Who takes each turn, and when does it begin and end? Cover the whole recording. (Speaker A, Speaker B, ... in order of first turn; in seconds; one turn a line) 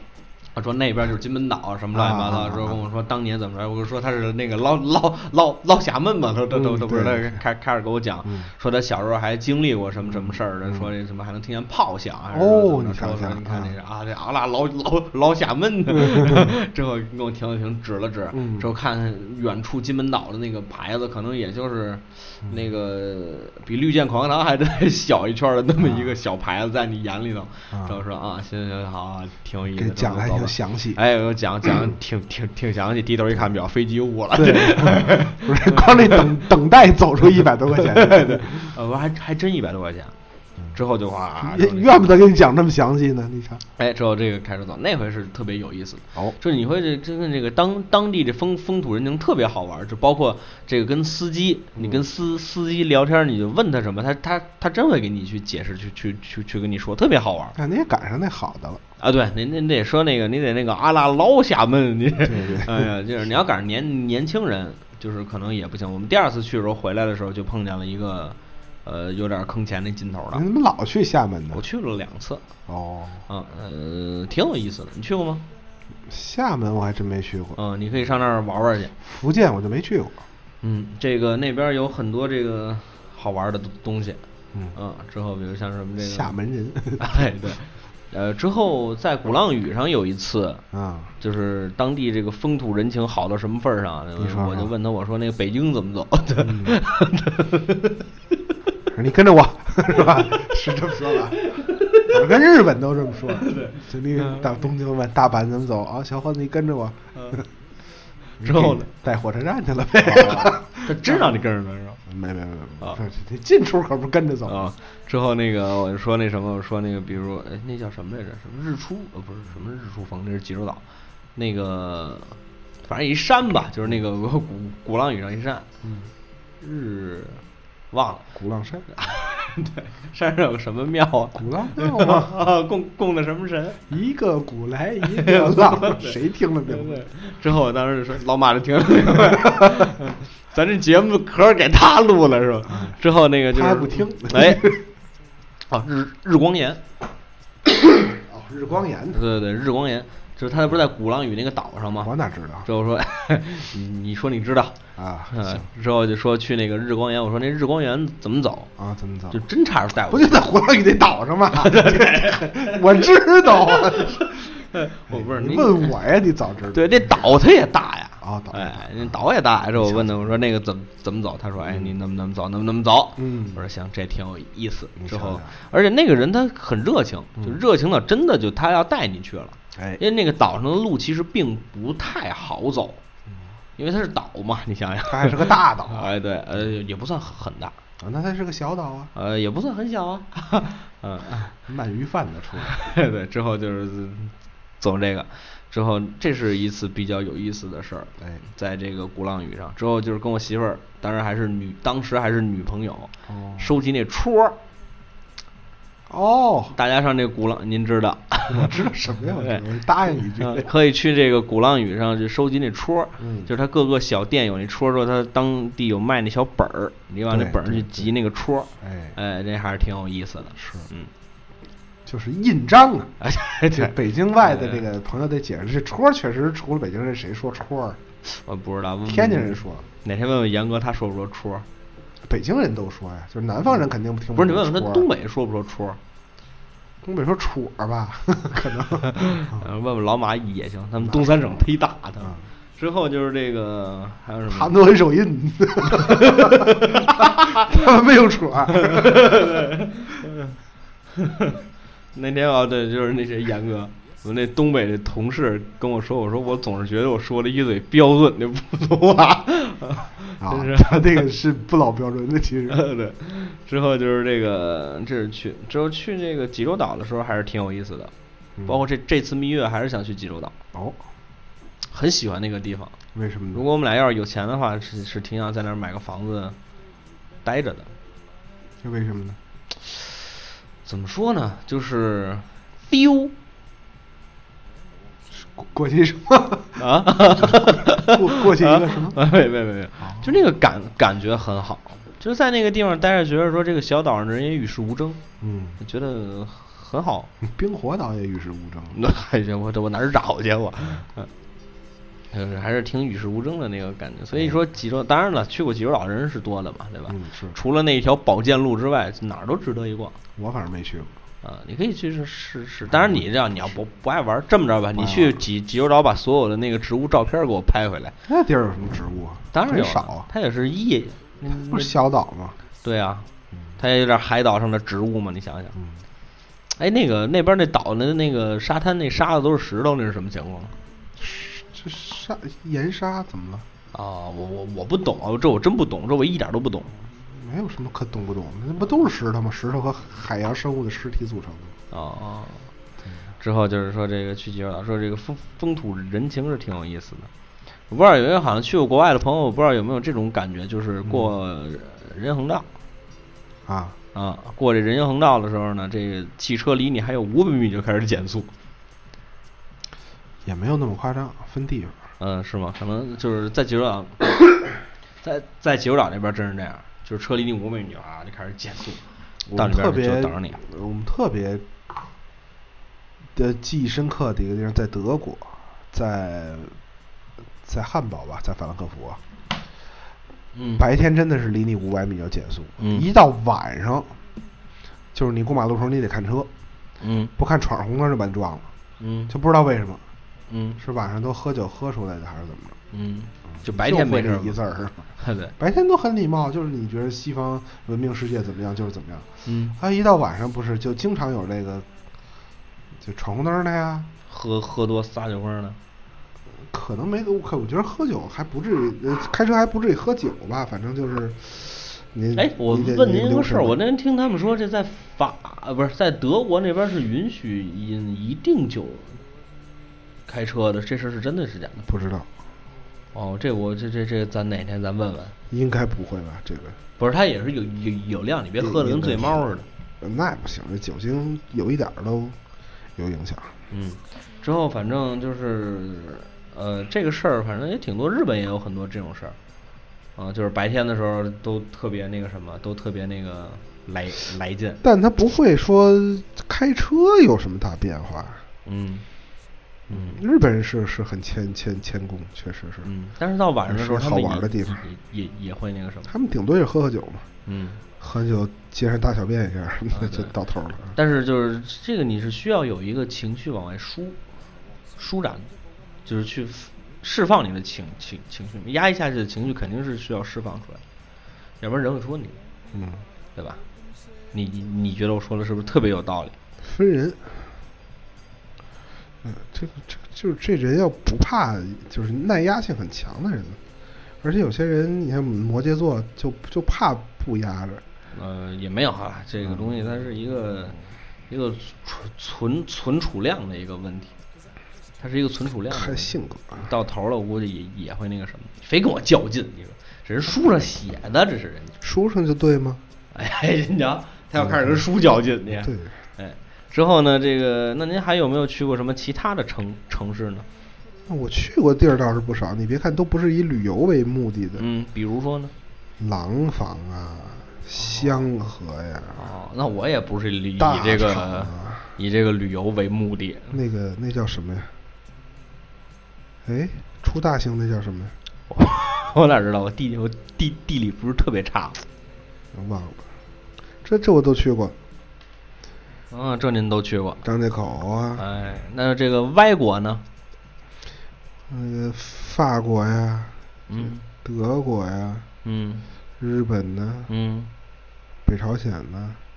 Speaker A: 0.5-36.4
Speaker B: 1.9-2.8
Speaker B: 6.5-7.4
Speaker B: 8.2-8.5
Speaker B: 10.1-10.9
Speaker B: 12.3-13.7
Speaker B: 15.9-16.5
Speaker B: 18.3-18.7
Speaker B: 25.8-26.1
Speaker B: 27.7-28.0
Speaker B: 29.8-31.0
Speaker B: 34.3-38.7
Speaker A: 37.8-40.1
Speaker A: 40.7-42.1
Speaker B: 41.4-43.6
Speaker A: 43.8-57.5
Speaker B: 51.8-52.0
Speaker B: 57.5-58.8
Speaker A: 59.0-70.4
Speaker B: 62.2-62.9
Speaker B: 70.3-71.6
Speaker A: 71.5-72.4
Speaker B: 72.7-73.2
Speaker A: 73.3-75.4
Speaker B: 76.1-77.6
Speaker A: 77.5-78.9
Speaker B: 79.0-80.2
Speaker A: 80.6-84.2
Speaker A: 84.7-86.3
Speaker B: 86.0-87.2
Speaker A: 87.0-90.6
Speaker B: 90.7-91.1
Speaker A: 91.2-98.1
Speaker B: 94.2-94.7
Speaker B: 96.4-96.8
Speaker B: 98.9-101.4
Speaker A: 99.9-102.2
Speaker B: 102.0-107.5
Speaker A: 103.3-104.5
Speaker A: 107.1-107.4
Speaker A: 108.4-108.8
Speaker B: 108.4-111.4
Speaker A: 110.0-112.0
Speaker B: 112.0-114.7
Speaker A: 114.5-120.8
Speaker A: 121.3-125.7
Speaker B: 125.8-126.1
Speaker A: 126.6-128.2
Speaker B: 128.3-128.9
Speaker A: 128.9-133.8
Speaker B: 131.3-132.3
Speaker B: 133.9-137.0
Speaker A: 135.1-136.1
Speaker A: 136.7-144.7
Speaker B: 139.2-139.7
Speaker B: 142.7-143.0
Speaker B: 143.5-144.8
Speaker A: 145.7-146.8
Speaker B: 148.1-149.2
Speaker A: 149.1-152.1
Speaker B: 152.0-152.7
Speaker A: 152.7-154.8
Speaker B: 154.9-155.7
Speaker A: 155.3-158.7
Speaker B: 158.8-159.4
Speaker A: 159.3-160.4
Speaker B: 160.1-164.4
Speaker A: 161.5-163.1
Speaker A: 163.7-165.9
Speaker B: 165.1-167.2
Speaker A: 166.7-183.0
Speaker B: 168.2-169.2
Speaker B: 169.8-170.3
Speaker B: 171.6-171.9
Speaker B: 173.2-173.6
Speaker B: 175.0-175.5
Speaker A: 183.8-187.7
Speaker B: 185.1-186.1
Speaker B: 188.0-189.1
Speaker A: 189.1-191.5
Speaker B: 191.6-192.7
Speaker A: 192.7-204.6
Speaker B: 203.3-203.7
Speaker B: 206.1-206.8
Speaker A: 206.7-208.7
Speaker B: 208.5-210.7
Speaker A: 209.4-209.6
Speaker A: 210.3-221.1
Speaker B: 213.2-213.5
Speaker B: 217.3-218.1
Speaker B: 218.8-219.2
Speaker B: 220.6-220.9
Speaker B: 222.1-223.1
Speaker A: 223.2-224.8
Speaker B: 223.7-228.0
Speaker A: 228.2-231.7
Speaker B: 229.1-229.8
Speaker B: 232.2-235.1
Speaker A: 234.3-236.0
Speaker B: 237.0-239.7
Speaker A: 239.0-244.7
Speaker B: 244.5-249.3
Speaker A: 245.9-247.7
Speaker A: 248.7-250.5
Speaker A: 251.2-251.6
Speaker A: 252.1-261.2
Speaker B: 260.4-262.8
Speaker A: 262.7-268.1
Speaker B: 268.6-268.8
Speaker A: 268.6-270.5
Speaker B: 270.7-271.0
Speaker A: 271.9-272.9
Speaker B: 273.1-273.6
Speaker A: 273.5-276.6
Speaker A: 277.4-277.9
Speaker B: 278.8-279.4
Speaker A: 280.8-283.3
Speaker B: 285.3-289.2
Speaker A: 286.8-295.2
Speaker B: 290.0-290.4
Speaker B: 295.4-295.8
Speaker A: 295.8-297.3
Speaker B: 297.4-299.0
Speaker A: 298.9-301.3
Speaker A: 302.3-310.1
Speaker B: 307.1-307.6
Speaker B: 310.4-311.1
Speaker A: 311.4-318.1
Speaker B: 312.9-313.2
Speaker B: 314.9-315.4
Speaker B: 318.3-320.3
Speaker A: 319.5-321.9
Speaker B: 321.5-322.6
Speaker A: 322.8-323.3
Speaker A: 323.8-325.7
Speaker A: 326.8-330.7
Speaker B: 331.2-333.6
Speaker A: 333.9-336.9
Speaker B: 337.1-341.7
Speaker A: 341.9-342.7
Speaker A: 343.4-347.3
Speaker A: 347.9-352.7
Speaker B: 351.0-351.3
Speaker B: 353.6-353.9
Speaker A: 354.1-358.5
Speaker B: 360.4-362.0
Speaker A: 362.2-364.6
Speaker A: 365.2-370.6
Speaker B: 369.5-371.6
Speaker B: 373.3-376.8
Speaker B: 377.6-379.2
Speaker A: 380.5-380.8
Speaker B: 380.8-384.1
Speaker A: 382.8-383.1
Speaker B: 385.1-386.5
Speaker A: 387.0-387.3
Speaker B: 387.4-388.7
Speaker A: 389.0-389.3
Speaker B: 389.3-390.0
Speaker A: 390.5-390.8
Speaker B: 390.8-392.8
Speaker A: 392.9-394.6
Speaker B: 393.5-401.9
Speaker A: 395.2-395.5
Speaker A: 399.4-399.8
Speaker B: 403.0-404.1
Speaker A: 404.3-405.8
Speaker B: 406.6-413.8
Speaker A: 412.3-419.2
Speaker A: 420.3-421.9
Speaker B: 421.8-422.3
Speaker A: 423.1-425.3
Speaker B: 425.5-426.8
Speaker A: 427.0-429.6
Speaker B: 428.6-432.4
Speaker B: 432.9-433.6
Speaker A: 433.7-439.4
Speaker A: 440.1-444.8
Speaker B: 444.8-448.4
Speaker A: 448.6-449.0
Speaker B: 449.9-452.9
Speaker A: 449.9-450.2
Speaker A: 452.8-456.1
Speaker B: 453.7-454.8
Speaker B: 456.1-457.3
Speaker A: 457.4-457.8
Speaker B: 458.0-460.9
Speaker A: 459.9-460.3
Speaker A: 460.9-464.2
Speaker A: 465.0-465.5
Speaker A: 466.0-470.8
Speaker A: 471.6-472.4
Speaker B: 472.7-473.0
Speaker A: 473.3-473.6
Speaker A: 474.3-476.4
Speaker B: 476.6-477.4
Speaker B: 479.2-483.6
Speaker B: 484.2-487.8
Speaker A: 488.1-490.8
Speaker B: 489.4-490.0
Speaker A: 491.3-494.1
Speaker A: 495.0-501.8
Speaker B: 495.7-496.7
Speaker B: 501.8-502.8
Speaker A: 503.1-510.4
Speaker B: 504.4-504.8
Speaker B: 505.6-505.9
Speaker B: 511.1-514.6
Speaker A: 514.6-515.5
Speaker B: 516.0-519.2
Speaker A: 517.8-518.2
Speaker A: 519.1-523.5
Speaker B: 520.6-521.9
Speaker B: 523.5-524.7
Speaker B: 526.4-528.1
Speaker A: 528.5-531.8
Speaker B: 532.5-533.0
Speaker B: 533.8-534.7
Speaker A: 536.1-537.2
Speaker B: 537.2-538.2
Speaker A: 538.1-540.0
Speaker B: 541.5-545.2
Speaker A: 543.7-544.0
Speaker A: 545.4-545.9
Speaker B: 546.2-547.1
Speaker A: 547.1-547.5
Speaker B: 548.2-549.2